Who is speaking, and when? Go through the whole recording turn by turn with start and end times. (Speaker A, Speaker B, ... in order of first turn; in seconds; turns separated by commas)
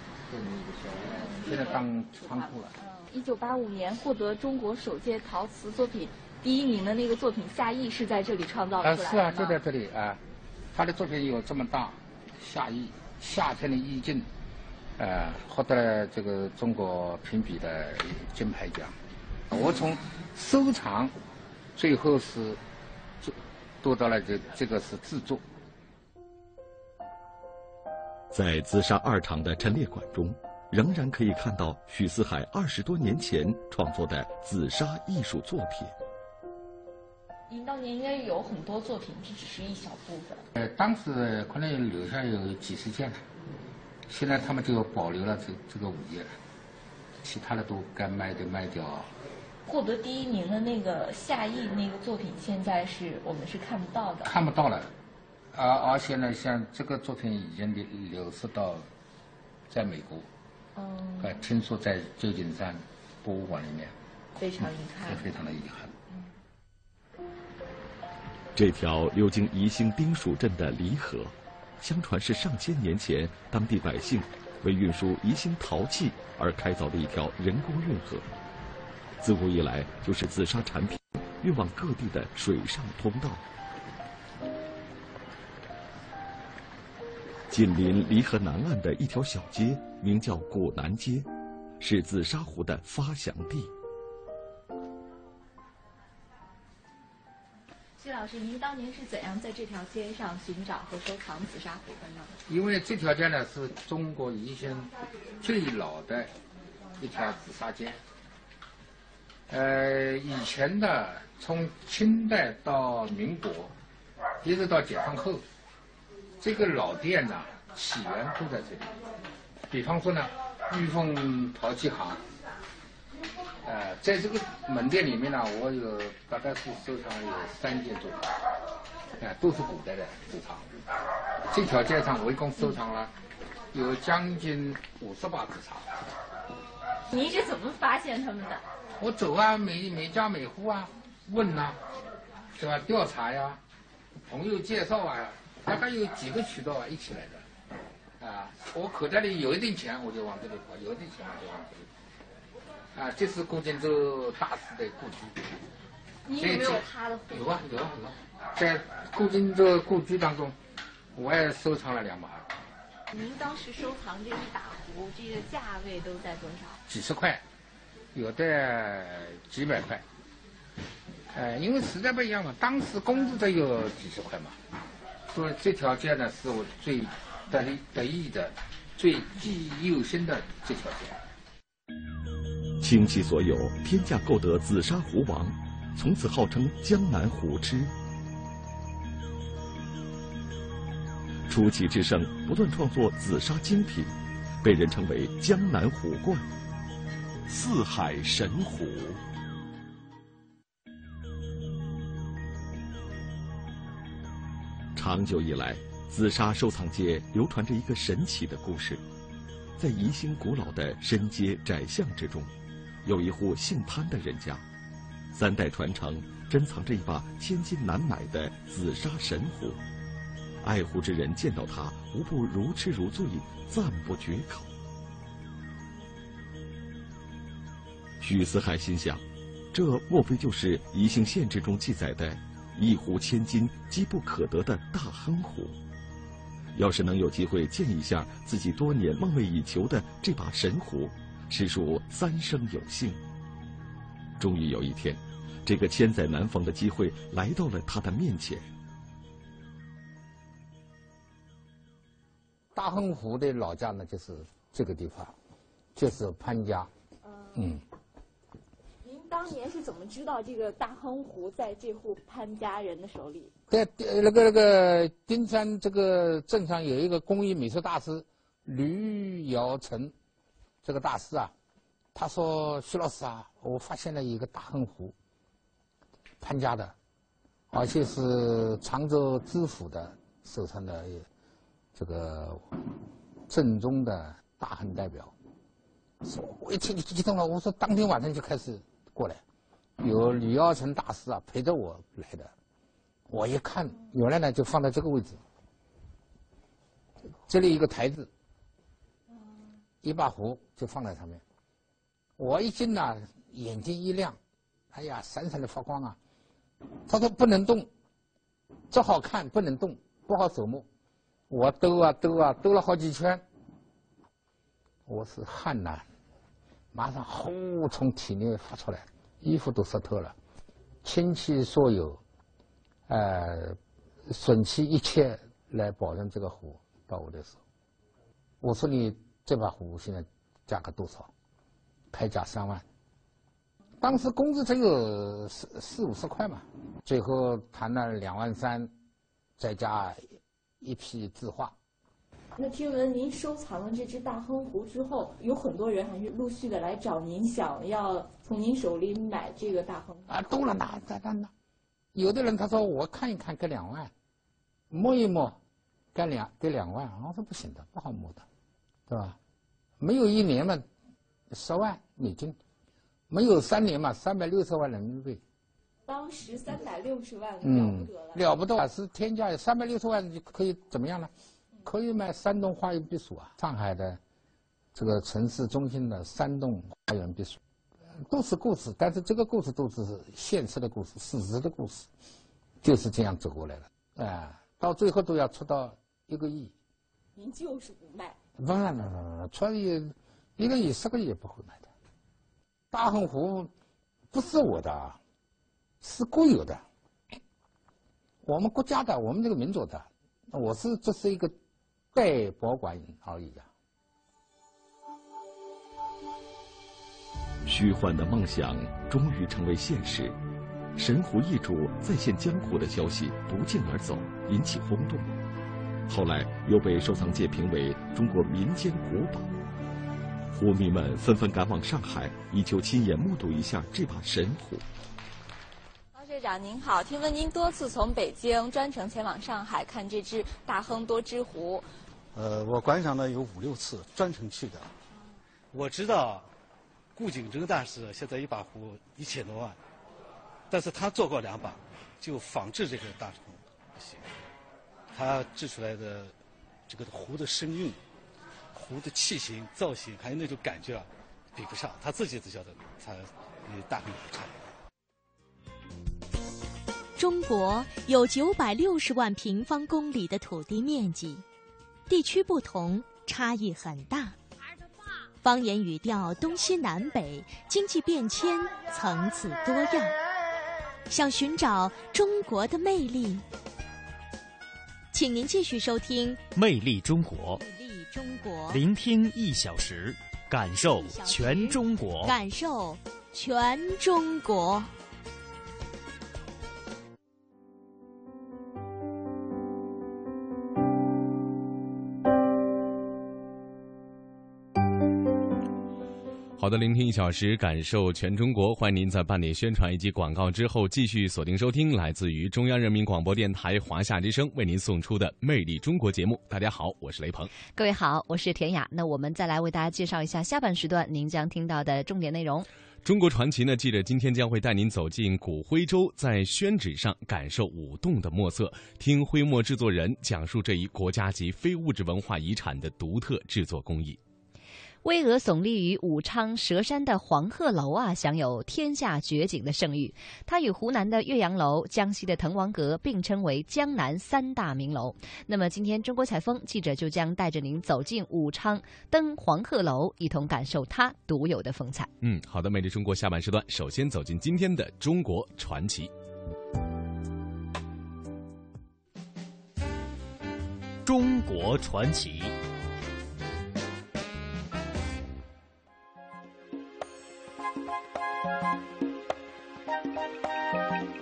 Speaker A: 0.3-2.8, Speaker B: 1.1-9.6, Speaker A: 8.8-10.2, Speaker A: 10.7-14.3, Speaker A: 15.0-18.9, Speaker A: 19.5-21.1, Speaker A: 21.8-22.6, Speaker A: 23.2-25.4, Speaker C: 28.3-35.9, Speaker B: 37.5-40.4, Speaker A: 40.6-43.2, Speaker A: 44.1-46.3, Speaker A: 47.2-49.1, Speaker B: 49.6-54.3, Speaker A: 54.2-54.9, Speaker A: 55.5-58.9, Speaker A: 59.7-60.3, Speaker B: 60.8-61.3, Speaker A: 61.2-63.9, Speaker B: 64.3-65.2, Speaker A: 64.6-65.9, Speaker C: 68.5-78.3, Speaker C: 79.2-83.4, Speaker C: 87.5-91.3, Speaker C: 91.8-93.7, Speaker B: 98.0-102.3, Speaker A: 102.5-106.3, Speaker A: 107.0-108.0, Speaker A: 109.5-113.7, Speaker A: 114.4-115.4, Speaker A: 116.4-119.0, Speaker A: 119.7-122.2, Speaker A: 123.6-128.2, Speaker A: 129.2-130.7, Speaker A: 131.5-133.1, Speaker A: 133.7-135.9, Speaker B: 137.1-138.6, Speaker A: 139.0-141.8, Speaker A: 142.6-143.6, Speaker A: 144.3-147.4, Speaker A: 148.2-151.9, Speaker A: 152.9-155.5, Speaker B: 156.2-157.6, Speaker A: 156.3-160.6, Speaker A: 161.1-162.5, Speaker B: 163.1-166.8, Speaker A: 166.9-167.4, Speaker A: 168.1-170.0, Speaker A: 171.3-174.6, Speaker A: 175.3-181.2, Speaker C: 182.8-187.9, Speaker C: 191.5-196.5, Speaker C: 197.4-199.2, Speaker C: 204.9-209.0, Speaker C: 209.8-212.5, Speaker C: 213.0-214.6, Speaker C: 215.3-219.8, Speaker C: 220.6-224.7, Speaker C: 228.2-235.8, Speaker C: 236.7-243.2, Speaker C: 244.4-248.7, Speaker A: 252.7-255.3, Speaker A: 255.9-256.9, Speaker B: 257.2-257.6, Speaker A: 257.5-257.8, Speaker B: 259.0-263.5, Speaker A: 263.7-270.1, Speaker A: 270.8-271.5, Speaker A: 272.1-275.1, Speaker A: 276.4-276.9, Speaker A: 277.7-281.2, Speaker A: 281.9-282.6, Speaker A: 283.5-285.3, Speaker A: 286.2-289.4, Speaker A: 290.0-292.5, Speaker A: 293.3-295.4, Speaker A: 297.5-298.3, Speaker A: 300.0-301.4, Speaker A: 302.4-304.4, Speaker A: 304.9-306.2, Speaker A: 307.1-307.9, Speaker A: 308.9-310.9, Speaker A: 311.5-313.4, Speaker A: 315.1-316.1, Speaker A: 316.9-320.3, Speaker A: 321.0-322.2, Speaker A: 323.1-327.6, Speaker A: 328.6-331.3, Speaker A: 332.1-332.8, Speaker A: 334.0-338.9, Speaker A: 339.6-340.2, Speaker A: 340.8-341.7, Speaker B: 342.6-350.4, Speaker A: 350.3-351.5, Speaker A: 352.1-354.1, Speaker A: 354.9-355.6, Speaker A: 356.1-358.4, Speaker A: 359.1-359.4, Speaker A: 360.0-360.8, Speaker A: 361.5-362.6, Speaker A: 363.3-365.4, Speaker B: 366.1-368.4, Speaker A: 367.6-371.3, Speaker A: 371.8-374.2, Speaker A: 374.9-377.6, Speaker A: 378.2-382.1, Speaker A: 382.8-386.7, Speaker B: 387.4-388.4, Speaker A: 388.6-391.9, Speaker A: 392.9-393.7, Speaker A: 394.3-395.2, Speaker A: 396.0-396.8, Speaker A: 398.4-401.5, Speaker A: 402.1-403.7, Speaker C: 407.6-410.4, Speaker C: 411.0-415.3, Speaker C: 416.1-419.5, Speaker C: 420.5-424.8, Speaker B: 426.1-431.9, Speaker D: 432.3-434.9, Speaker D: 435.7-436.5, Speaker D: 437.1-439.8, Speaker D: 440.7-444.2, Speaker D: 445.1-446.3, Speaker D: 446.9-448.0, Speaker D: 448.7-454.5, Speaker E: 457.2-461.4, Speaker E: 462.1-464.3, Speaker E: 465.4-470.1, Speaker E: 471.1-473.4, Speaker E: 475.1-476.4, Speaker F: 476.6-477.6, Speaker E: 477.5-478.8, Speaker F: 478.7-482.4, Speaker E: 481.0-484.9, Speaker G: 496.6-507.5, Speaker H: 507.7-512.7, Speaker G: 513.0-524.2, Speaker H: 525.0-542.1, Speaker G: 542.2-546.1, Speaker F: 551.0-552.5